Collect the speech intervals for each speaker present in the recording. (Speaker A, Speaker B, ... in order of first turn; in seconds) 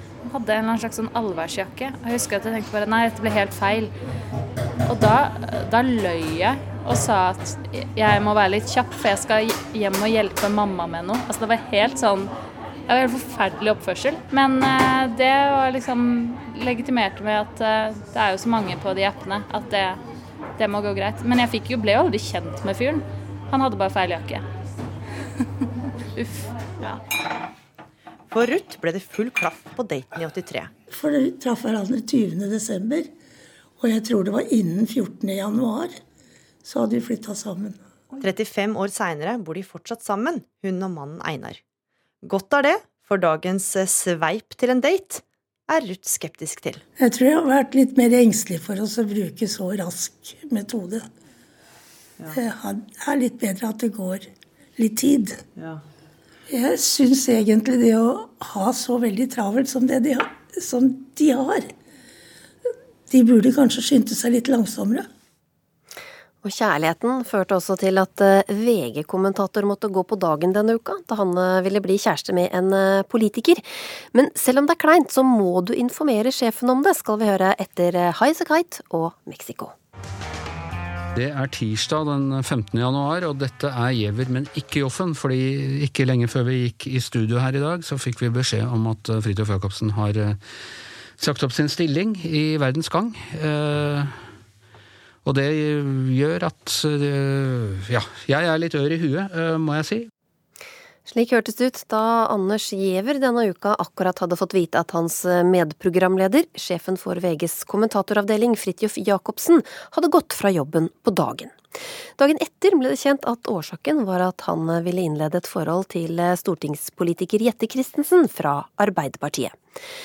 Speaker A: 0.2-3.9, 4.9-12.3, 12.9-20.0, 20.6-24.4, 26.1-27.0
Speaker B: 28.3-30.7, 38.2-41.6, 42.2-46.8
Speaker C: 30.9-33.1, 33.8-36.0, 36.6-37.9, 47.0-51.1, 52.3-55.4, 56.5-61.7, 63.1-65.1
Speaker D: 66.4-79.7, 101.1-119.6
Speaker E: 81.2-90.4, 91.2-94.2, 95.2-100.1